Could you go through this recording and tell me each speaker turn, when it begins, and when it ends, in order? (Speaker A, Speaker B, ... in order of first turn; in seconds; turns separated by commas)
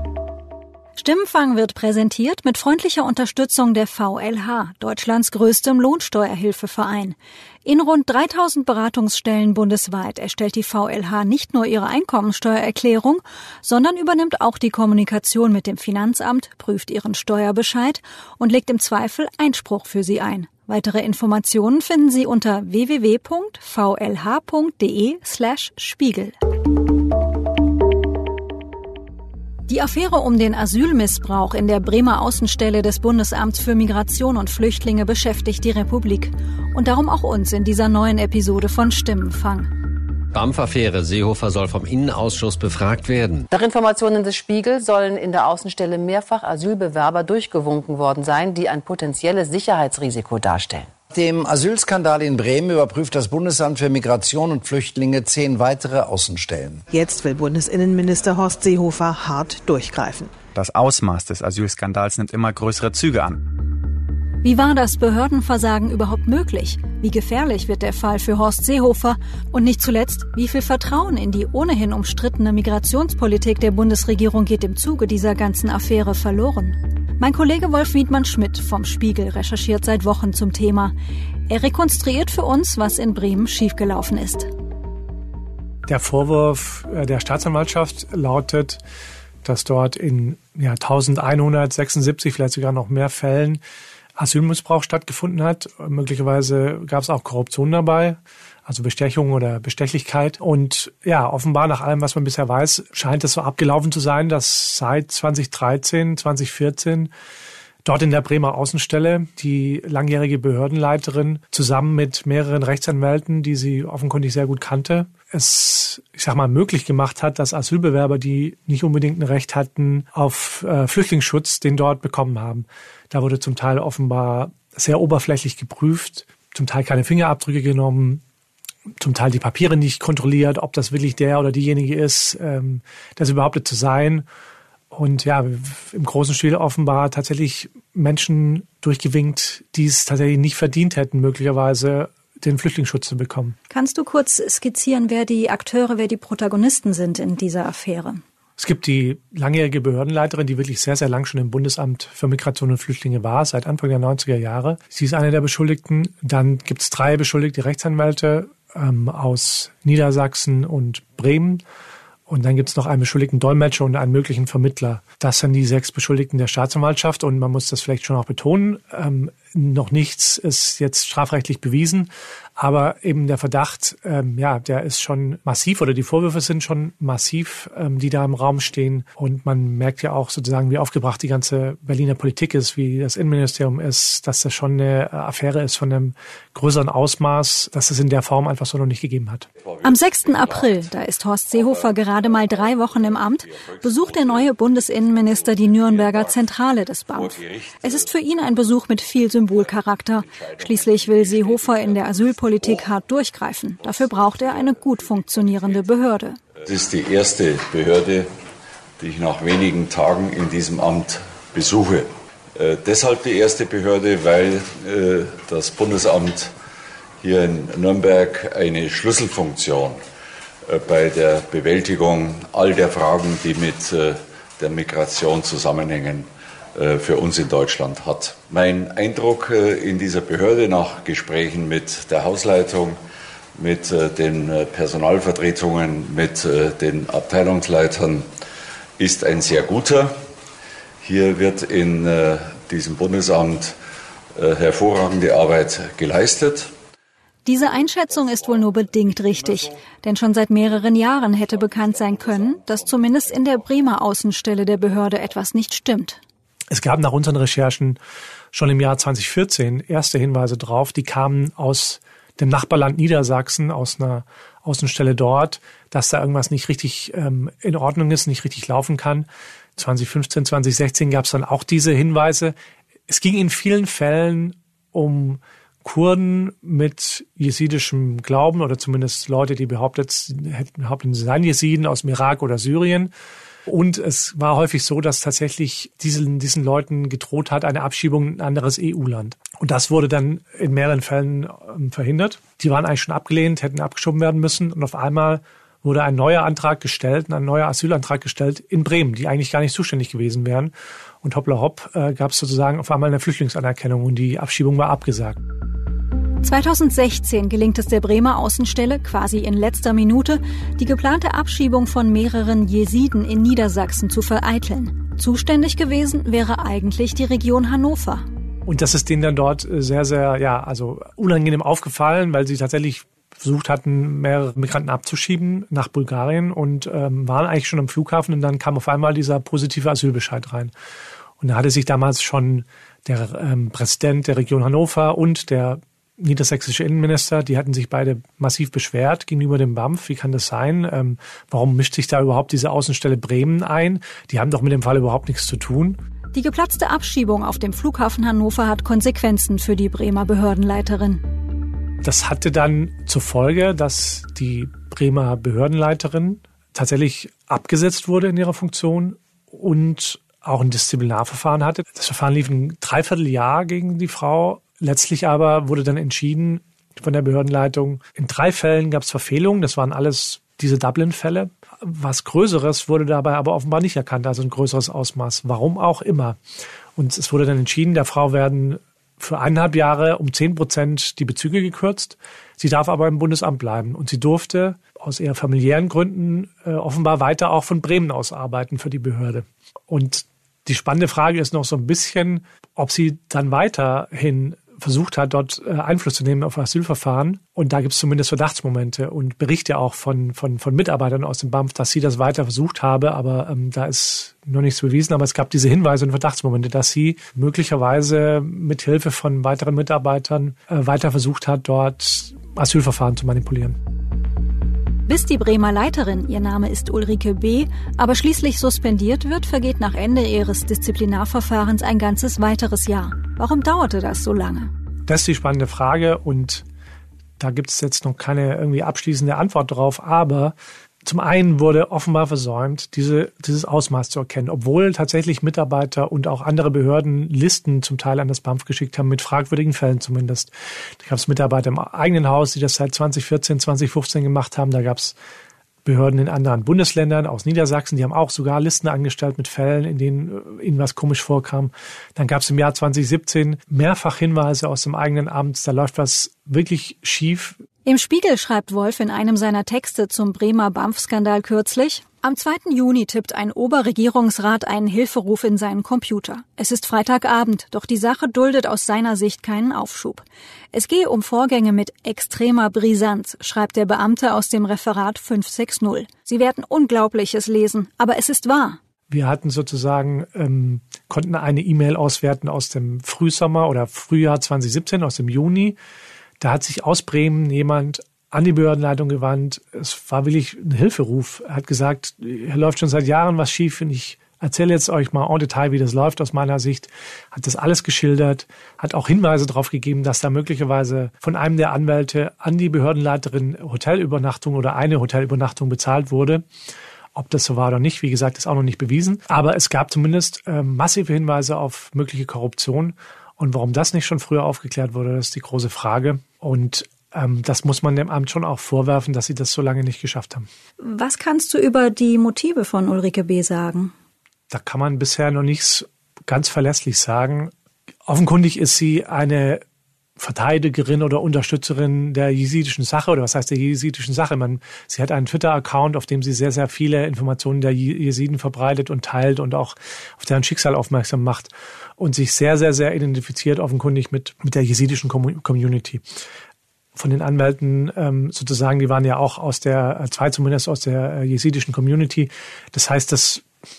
Speaker A: 1.0-26.3, Speaker A: 29.7-39.7, Speaker B: 40.3-43.5, Speaker C: 43.5-50.9, Speaker D: 51.1-56.8, Speaker E: 56.9-60.3, Speaker F: 60.5-63.4, Speaker A: 64.4-80.9, Speaker A: 81.5-84.5, Speaker G: 85.9-88.8, Speaker G: 89.4-93.6, Speaker G: 94.2-107.1, Speaker G: 107.8-128.2, Speaker G: 129.0-134.2, Speaker G: 134.9-143.6, Speaker A: 143.7-148.2, Speaker G: 148.6-161.6, Speaker G: 162.3-189.5, Speaker H: 189.7-190.8, Speaker A: 189.8-206.4, Speaker H: 192.2-196.4, Speaker H: 197.1-198.1, Speaker H: 200.2-202.8, Speaker H: 203.9-205.8, Speaker H: 206.6-208.3, Speaker H: 209.0-216.5, Speaker H: 217.2-220.0, Speaker H: 220.7-233.0, Speaker H: 233.6-238.2, Speaker H: 239.0-240.1, Speaker H: 241.0-243.7, Speaker H: 244.3-246.7, Speaker A: 247.4-256.2, Speaker H: 251.2-253.5, Speaker G: 256.7-258.0, Speaker G: 258.5-272.5, Speaker G: 273.1-283.1, Speaker G: 283.6-305.4, Speaker A: 306.4-318.2, Speaker G: 318.6-330.7, Speaker G: 331.4-346.0, Speaker A: 346.3-351.2, Speaker G: 352.0-376.4, Speaker G: 376.9-413.8, Speaker A: 415.1-424.7, Speaker G: 425.1-426.6, Speaker G: 427.4-445.1, Speaker G: 445.8-457.6, Speaker A: 457.8-478.8, Speaker G: 479.1-485.8, Speaker G: 486.4-506.4, Speaker G: 507.1-520.5, Speaker A: 520.8-523.9, Speaker G: 524.5-527.5, Speaker G: 528.0-529.6, Speaker G: 530.2-546.0, Speaker G: 547.0-553.4